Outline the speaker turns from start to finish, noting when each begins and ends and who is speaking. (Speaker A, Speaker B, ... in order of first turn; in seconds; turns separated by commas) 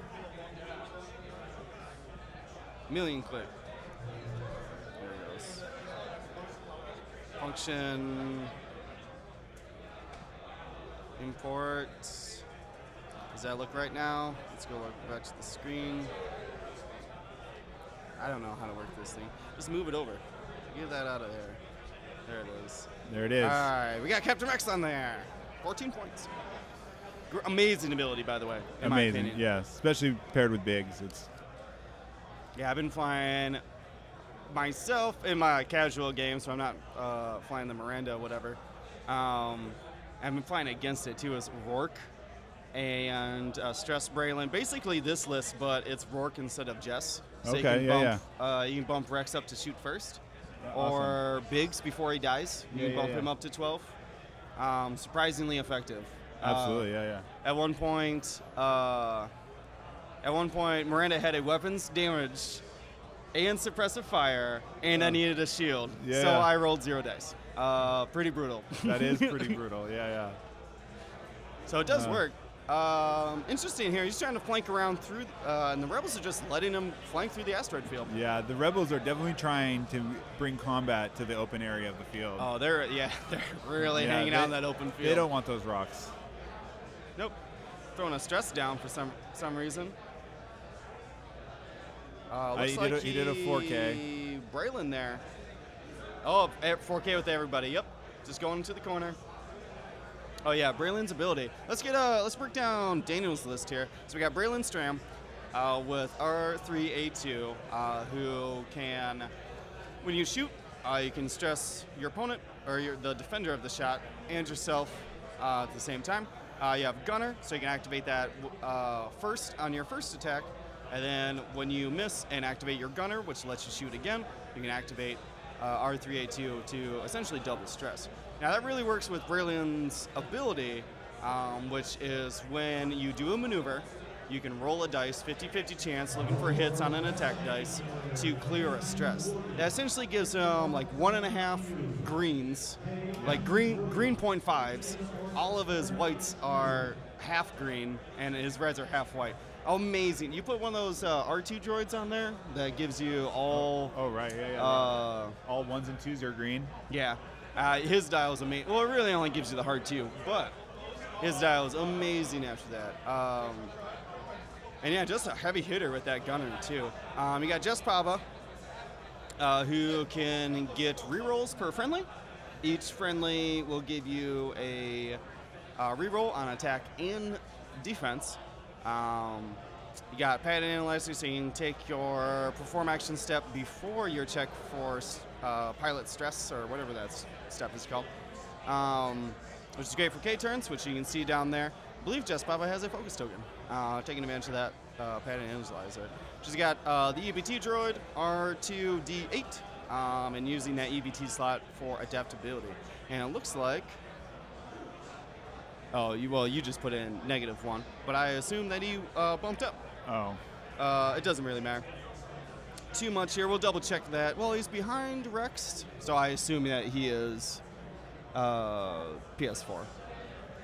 Speaker A: 2.9-3.5, Speaker A: 5.0-5.6, Speaker A: 7.4-8.5, Speaker A: 11.2-12.4, Speaker A: 13.3-16.1, Speaker A: 18.2-21.6, Speaker A: 22.3-22.9, Speaker B: 23.1-23.7, Speaker A: 23.4-26.3, Speaker A: 27.3-29.4, Speaker B: 28.8-31.3, Speaker A: 32.5-33.6, Speaker A: 34.5-42.1, Speaker A: 42.7-50.2, Speaker B: 47.4-48.2, Speaker B: 50.6-51.2, Speaker A: 50.7-53.9, Speaker B: 52.7-53.3, Speaker A: 54.6-56.9, Speaker B: 56.4-57.2, Speaker A: 57.4-59.3, Speaker A: 60.2-62.6, Speaker A: 63.3-69.6, Speaker B: 66.0-66.5, Speaker B: 68.8-70.4, Speaker A: 71.7-78.1, Speaker B: 71.9-72.2, Speaker B: 78.1-82.5, Speaker A: 82.4-85.3, Speaker B: 83.8-86.1, Speaker A: 88.0-90.0, Speaker A: 92.3-95.2, Speaker B: 92.5-94.0, Speaker A: 96.2-99.2, Speaker A: 100.4-109.3, Speaker A: 110.0-153.9, Speaker B: 153.5-156.7, Speaker A: 154.5-155.4, Speaker A: 156.9-160.6, Speaker A: 161.2-163.7, Speaker A: 164.8-168.2, Speaker A: 169.4-172.1, Speaker A: 172.6-175.2, Speaker A: 175.8-179.6, Speaker A: 180.1-188.1, Speaker A: 188.7-204.0, Speaker A: 205.9-209.8, Speaker B: 210.1-210.4, Speaker A: 210.8-211.8, Speaker A: 212.9-217.6, Speaker A: 218.3-219.9